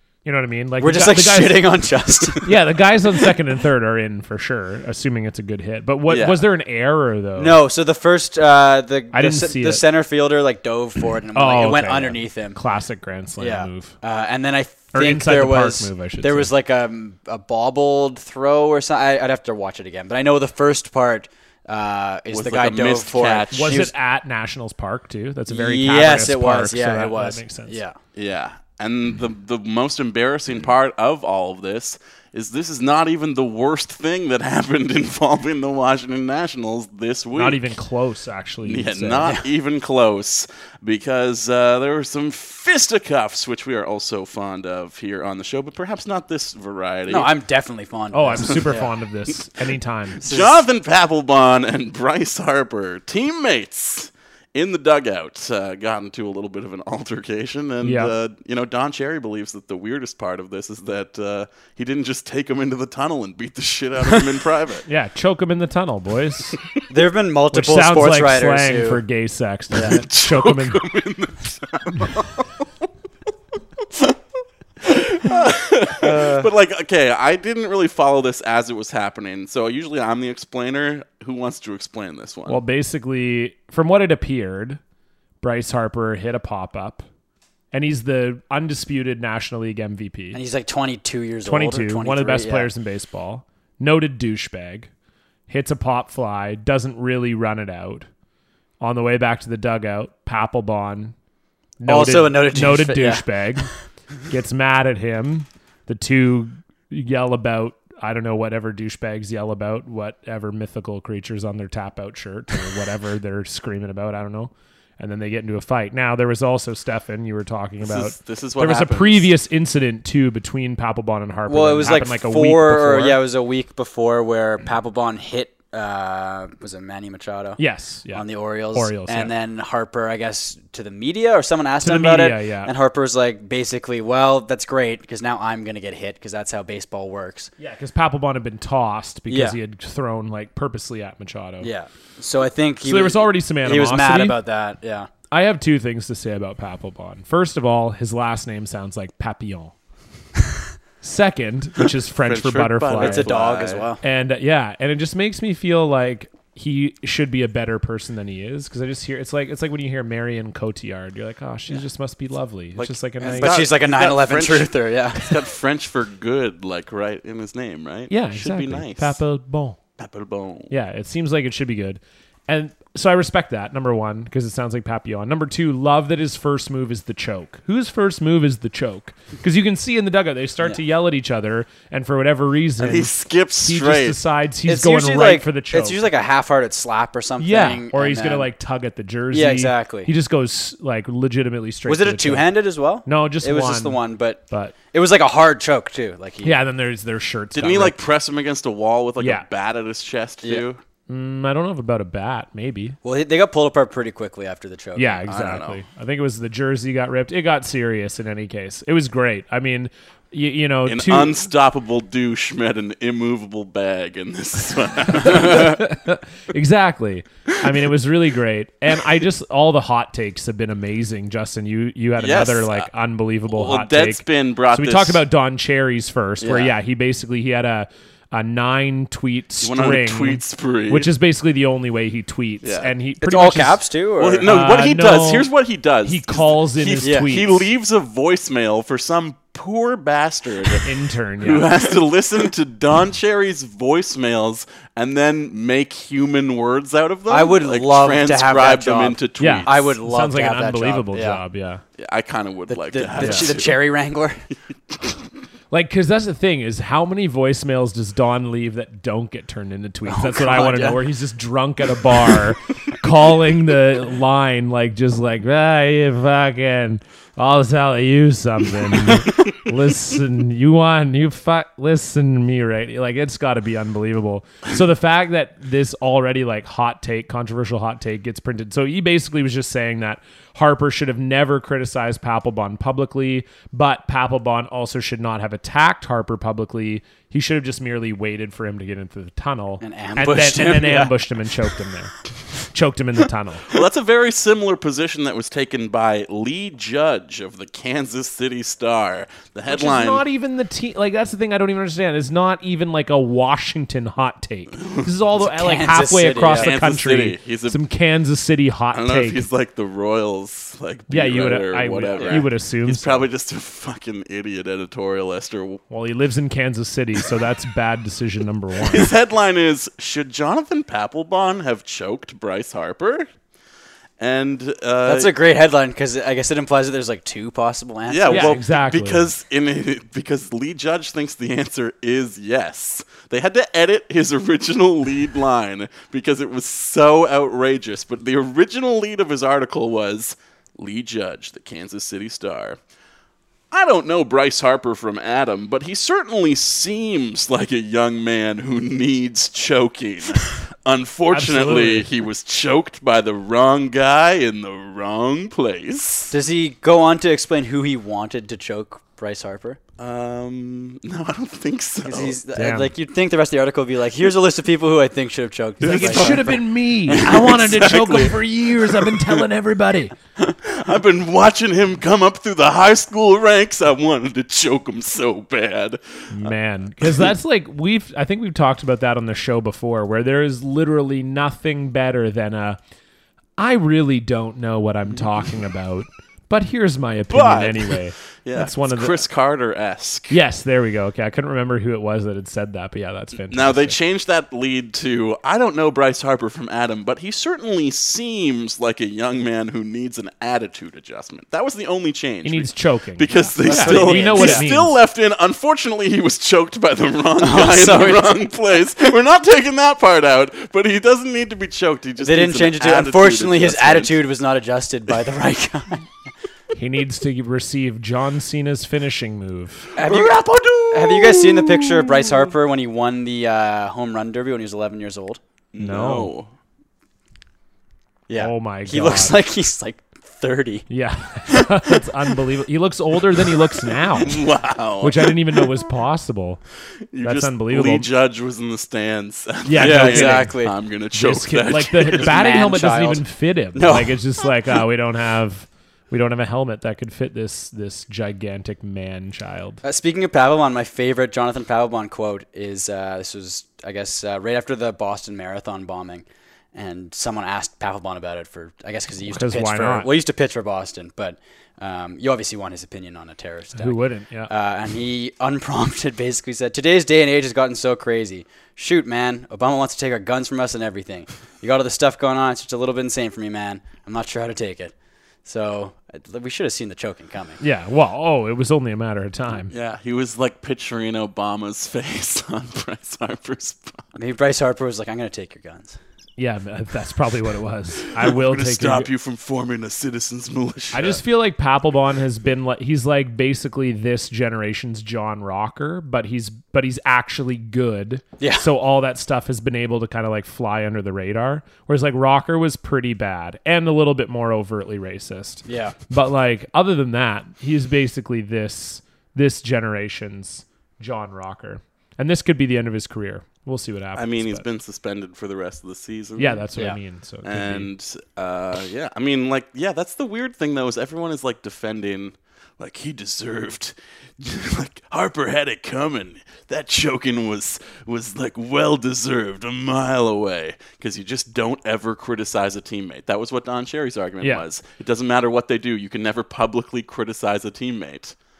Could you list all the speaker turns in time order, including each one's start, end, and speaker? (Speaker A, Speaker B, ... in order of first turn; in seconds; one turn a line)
Speaker A: 0.2-1.7
Speaker B: 0.8-2.6
Speaker A: 2.4-7.6
Speaker C: 6.1-6.4
Speaker B: 7.4-12.6
Speaker A: 9.1-9.8
Speaker A: 11.3-13.9
Speaker B: 13.4-23.9
Speaker A: 14.9-16.5
Speaker C: 22.3-23.9
Speaker A: 23.5-27.8
Speaker B: 25.5-28.0
Speaker C: 28.1-37.7
Speaker A: 37.3-39.3
Speaker C: 38.6-47.3
Speaker B: 47.1-48.9
Speaker A: 48.1-50.2
Speaker C: 50.2-64.8
Speaker B: 50.2-50.6
Speaker A: 57.8-58.1
Speaker A: 64.9-66.6
Speaker B: 66.9-69.0
Speaker A: 67.5-70.8
Speaker C: 69.8-72.7
Speaker C: 74.8-82.6
Speaker B: 76.0-76.5
Speaker A: 82.5-84.8
Speaker A: 85.4-87.0
Speaker A: 87.7-90.4
Speaker B: 90.3-92.7
Speaker A: 91.4-94.9
Speaker A: 95.5-98.1
Speaker A: 98.8-101.1
Speaker A: 101.8-103.7
Speaker B: 101.9-103.7
Speaker A: 104.3-123.2
Speaker C: 117.8-119.3
Speaker B: 121.5-137.5
Speaker A: 127.6-129.3
Speaker A: 131.8-132.7
Speaker A: 137.6-141.7
Speaker B: 139.3-139.6
Speaker B: 141.6-145.1
Speaker A: 142.8-144.4
Speaker A: 145.3-149.7
Speaker A: 151.0-153.3
Speaker C: 152.2-153.8
Speaker B: 152.9-154.0
Speaker A: 154.0-163.6
Speaker C: 162.8-169.2
Speaker B: 163.2-165.4
Speaker A: 168.1-169.8
Speaker C: 170.0-170.7
Speaker A: 170.7-186.0
Speaker C: 182.8-184.2
Speaker B: 184.7-188.5
Speaker A: 187.4-192.4
Speaker B: 189.3-190.1
Speaker B: 191.9-196.6
Speaker A: 193.0-194.0
Speaker A: 196.4-198.0
Speaker C: 197.5-200.8
Speaker A: 199.2-199.4
Speaker A: 201.1-203.0
Speaker B: 203.0-205.2
Speaker A: 204.9-211.4
Speaker C: 205.3-205.8
Speaker C: 210.8-215.9
Speaker A: 215.1-233.8
Speaker C: 222.2-222.9
Speaker C: 223.5-225.2
Speaker C: 229.6-231.1
Speaker C: 232.6-232.9
Speaker B: 233.2-234.4
Speaker C: 234.2-240.8
Speaker A: 234.4-235.5
Speaker A: 236.0-237.7
Speaker B: 237.0-237.3
Speaker A: 240.8-241.7
Speaker C: 241.4-249.9
Speaker B: 247.3-251.4
Speaker A: 249.4-251.8
Speaker C: 252.0-253.8
Speaker B: 252.7-254.4
Speaker A: 253.2-253.5
Speaker C: 254.9-255.2
Speaker A: 255.7-292.1
Speaker B: 260.1-261.0
Speaker B: 289.8-291.2
Speaker A: 292.7-293.7
Speaker C: 293.7-300.2
Speaker A: 299.7-309.4
Speaker C: 304.8-305.1
Speaker B: 305.4-306.7
Speaker C: 306.5-307.8
Speaker C: 308.9-315.8
Speaker A: 311.1-313.3
Speaker B: 312.2-312.4
Speaker A: 315.9-319.1
Speaker C: 318.8-323.3
Speaker C: 324.2-325.3
Speaker B: 325.0-328.6
Speaker C: 328.1-342.8
Speaker A: 328.3-329.3
Speaker C: 343.7-356.3
Speaker A: 351.3-352.1
Speaker B: 356.3-359.8
Speaker C: 360.0-362.4
Speaker B: 362.0-367.3
Speaker A: 362.6-362.9
Speaker C: 365.8-369.4
Speaker A: 365.8-370.1
Speaker C: 370.4-377.3
Speaker A: 376.3-382.8
Speaker A: 383.6-389.2
Speaker C: 387.3-390.4
Speaker A: 390.3-393.9
Speaker C: 393.5-414.2
Speaker A: 402.4-405.0
Speaker B: 403.6-404.6
Speaker B: 407.4-408.4
Speaker B: 412.2-416.1
Speaker A: 416.7-419.9
Speaker C: 419.9-422.5
Speaker B: 420.0-425.4
Speaker C: 425.7-426.5
Speaker A: 425.8-426.3
Speaker B: 428.3-430.9
Speaker A: 428.4-429.3
Speaker A: 430.9-434.4
Speaker C: 434.1-435.7
Speaker A: 435.0-436.6
Speaker C: 437.1-442.5
Speaker A: 437.2-438.1
Speaker A: 439.6-440.6
Speaker B: 439.8-440.7
Speaker A: 441.1-449.8
Speaker B: 442.1-444.2
Speaker B: 449.8-474.9
Speaker A: 459.3-460.1
Speaker A: 463.8-464.5
Speaker B: 475.4-477.6
Speaker A: 477.6-479.7
Speaker C: 479.7-484.0
Speaker B: 484.1-486.0
Speaker A: 486.4-489.1
Speaker C: 488.1-491.2
Speaker A: 490.9-514.6
Speaker B: 498.4-498.6
Speaker B: 505.7-505.9
Speaker C: 514.1-516.7
Speaker A: 516.4-517.9
Speaker C: 517.4-538.4